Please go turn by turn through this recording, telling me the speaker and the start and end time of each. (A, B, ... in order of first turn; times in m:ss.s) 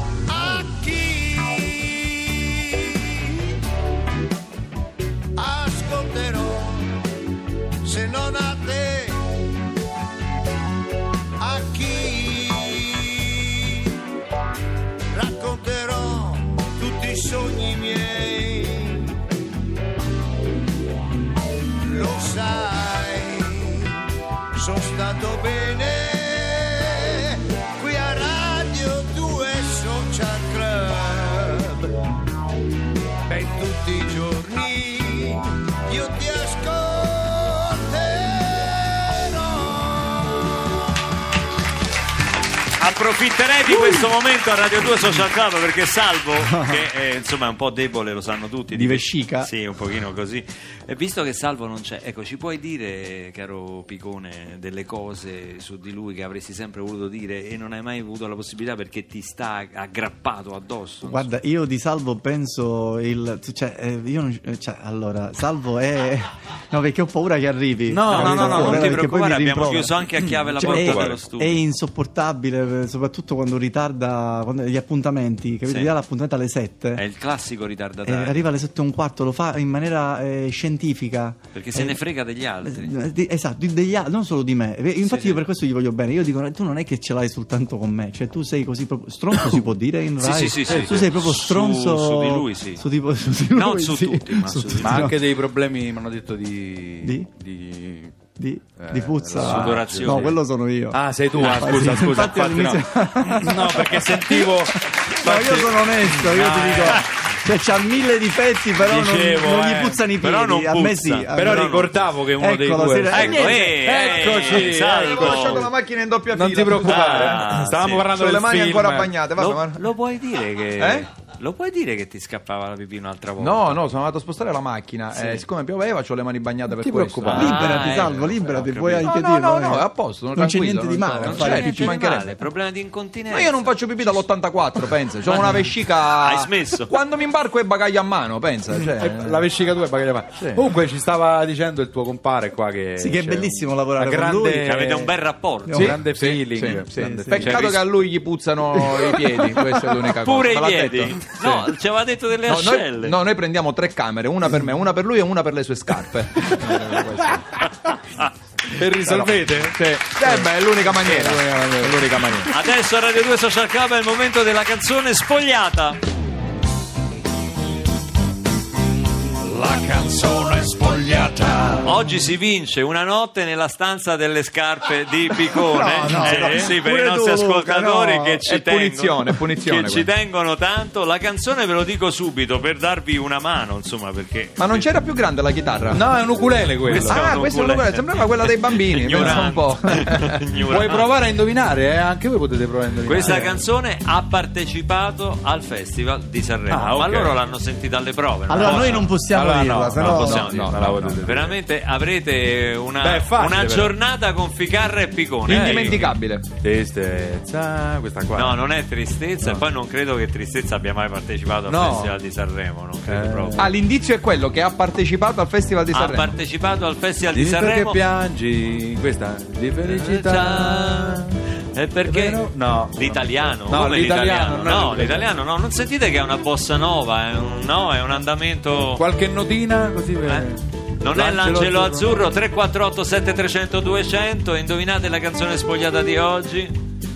0:00.3-0:03.5 A
0:05.4-0:07.0 A
0:07.8-0:09.2 A
0:11.4-0:13.9 A
0:15.1-0:19.2 A
0:21.8-0:23.9 A
0:24.5-0:31.9 A
0:33.3-0:41.1 A
0:42.8-1:01.3 B
0:46.5-0:46.8 C
0:48.7-0:49.5 C
1:01.0-1:10.0 C
1:07.9-1:11.6 B
1:07.9-1:08.9 D
1:10.2-1:11.2 D
1:10.6-1:17.0 C
1:15.7-1:15.9 B
1:17.0-1:18.4 B
1:18.0-1:22.0 C
1:21.6-1:23.0 B
1:22.6-1:35.2 C
1:25.0-1:25.4 B
1:30.2-1:32.8 B
1:30.7-1:31.0 D
1:33.5-1:35.1 B
1:34.8-1:38.3 D
1:37.0-1:37.3 C
1:38.4-1:53.8 C
1:38.8-1:40.4 D
1:39.4-1:40.4 B
1:40.9-1:47.1 D
1:41.4-1:42.4 B
1:48.8-1:50.0 D
1:50.1-1:52.0 B
1:51.3-1:55.7 D
1:53.1-1:55.7 B
1:53.8-1:57.4 E
1:56.3-1:59.1 D
1:56.8-1:58.1 B
1:58.1-1:59.8 E
1:59.4-2:03.8 B
2:00.8-2:01.1 E
2:03.4-2:07.6 E
2:06.7-2:07.5 D
2:07.3-2:12.0 C
2:07.3-2:09.1 B
2:09.0-2:12.4 E
2:11.3-2:14.2 B
2:13.3-2:19.5 E
2:15.3-2:16.9 B
2:18.8-2:25.2 D
2:20.4-2:20.6 E
2:23.0-2:24.8 C
2:24.5-2:26.0 B
2:25.7-2:26.0 C
2:25.7-2:27.9 D
2:25.8-2:31.6 E
2:26.9-2:27.6 C
2:30.1-2:33.2 B
2:32.5-2:37.6 E
2:36.6-2:37.6 D
2:38.7-2:42.0 D
2:39.0-2:42.5 E
2:42.5-2:46.0 B
2:49.4-2:51.9 D
2:51.8-3:04.9 B
2:55.6-2:58.4 C
2:55.9-2:56.7 D
2:58.5-3:00.1 E
3:04.6-3:06.0 E
3:05.9-3:07.2 D
3:06.8-3:11.2 B
3:06.9-3:10.3 E
3:09.1-3:09.4 D
3:10.7-3:13.6 D
3:13.0-3:19.2 B
3:13.2-3:13.5 C
3:16.7-3:17.4 D
3:18.5-3:20.7 C
3:18.6-3:21.6 D
3:19.8-3:26.0 B
3:23.0-3:23.9 D
3:25.5-3:26.5 E
3:25.5-3:28.6 D
3:28.3-3:33.7 B
3:31.7-3:32.2 D
3:33.0-3:33.7 D
3:33.6-3:36.4 E
3:35.9-3:38.0 B
3:37.3-3:41.3 D
3:39.8-3:49.0 B
3:42.0-3:45.3 D
3:49.0-3:52.2 D
3:50.2-3:56.8 B